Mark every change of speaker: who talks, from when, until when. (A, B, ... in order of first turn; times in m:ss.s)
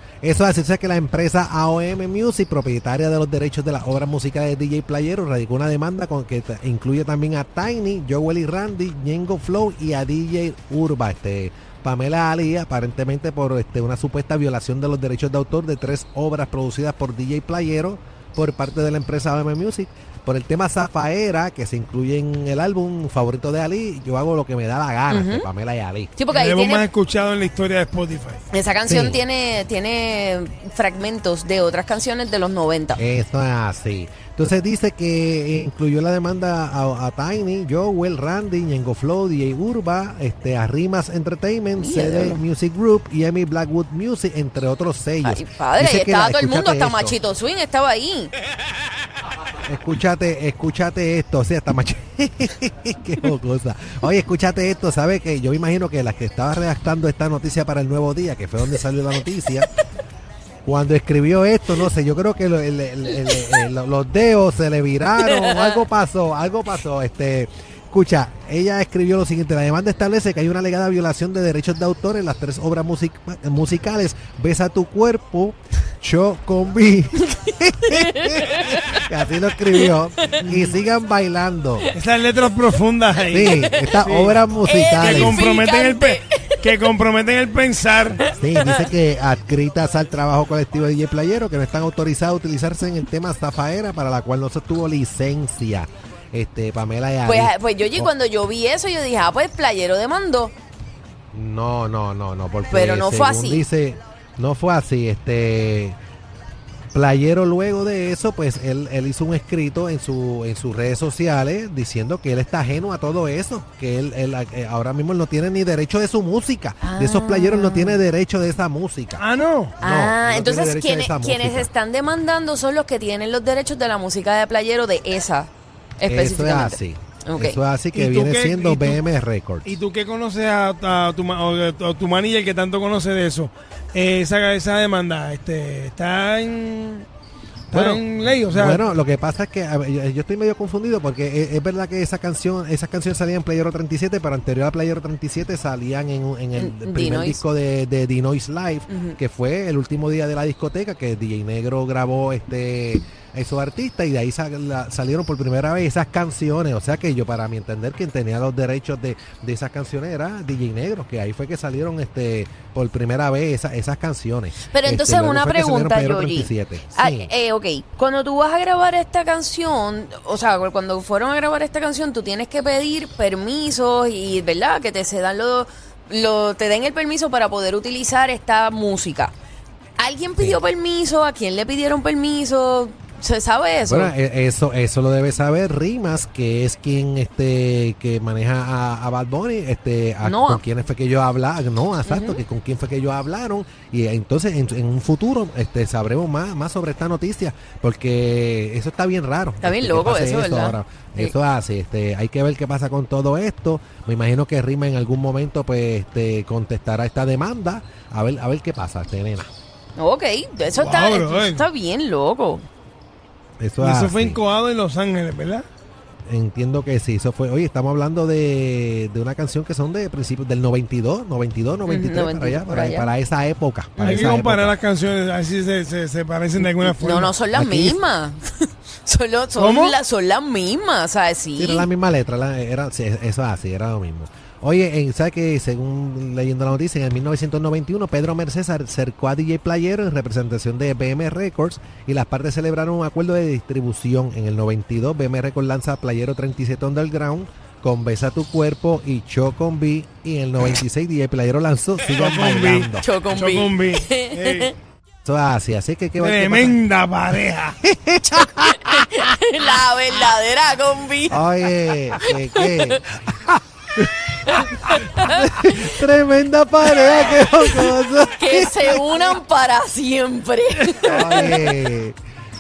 0:00.2-0:26.2 A
0:25.1-0:25.5 B
0:26.2-0:26.8 B
0:26.3-0:28.4 C
0:28.5-0:33.0 B
0:28.9-0:29.2 A
0:33.0-0:47.2 A
0:41.8-0:42.4 B
0:45.2-0:48.3 B
0:49.7-0:59.7 A
1:00.6-1:21.9 A
1:03.2-1:03.6 B
1:05.2-1:05.8 B
1:17.4-1:19.0 B
1:19.8-1:20.5 B
1:22.0-1:24.4 C
1:23.3-1:25.4 A
1:23.4-1:23.9 B
1:24.6-1:26.7 B
1:25.0-1:28.2 C
1:28.2-1:38.1 A
1:28.5-1:28.9 B
1:37.2-1:40.5 B
1:41.3-1:46.0 A
1:42.7-1:43.7 B
1:46.9-1:59.2 A
1:56.8-1:58.0 B
1:59.2-1:59.8 C
1:59.8-2:07.6 B
1:59.8-2:01.7 A
2:06.0-2:09.7 A
2:08.0-2:09.0 C
2:09.6-2:17.1 C
2:17.7-2:18.8 C
2:17.7-2:47.3 A
2:26.6-2:27.4 B
2:28.9-2:29.2 B
2:44.7-2:59.3 B
3:00.0-3:04.1 B
3:03.8-3:29.5 A
3:10.2-3:10.6 B
3:12.1-3:12.4 B
3:19.6-3:21.4 B
3:30.0-3:32.7 B
3:30.8-3:31.7 C
3:33.6-3:34.4 A
3:33.8-3:35.6 C
3:36.3-3:44.8 A
3:41.9-3:43.1 B
3:44.0-3:44.4 B
3:44.0-3:47.4 C
3:46.6-3:51.9 B
3:47.5-3:48.0 A
3:49.6-3:50.0 C
3:51.6-4:13.1 A
4:12.1-4:14.7 C
4:13.0-4:14.7 B
4:15.2-4:16.8 A
4:16.2-4:17.8 C
4:17.8-4:19.0 A
4:18.4-4:21.4 B
4:21.3-4:29.4 A
4:22.2-4:23.0 B
4:24.4-4:25.9 B
4:27.0-4:31.6 B
4:31.0-4:32.2 A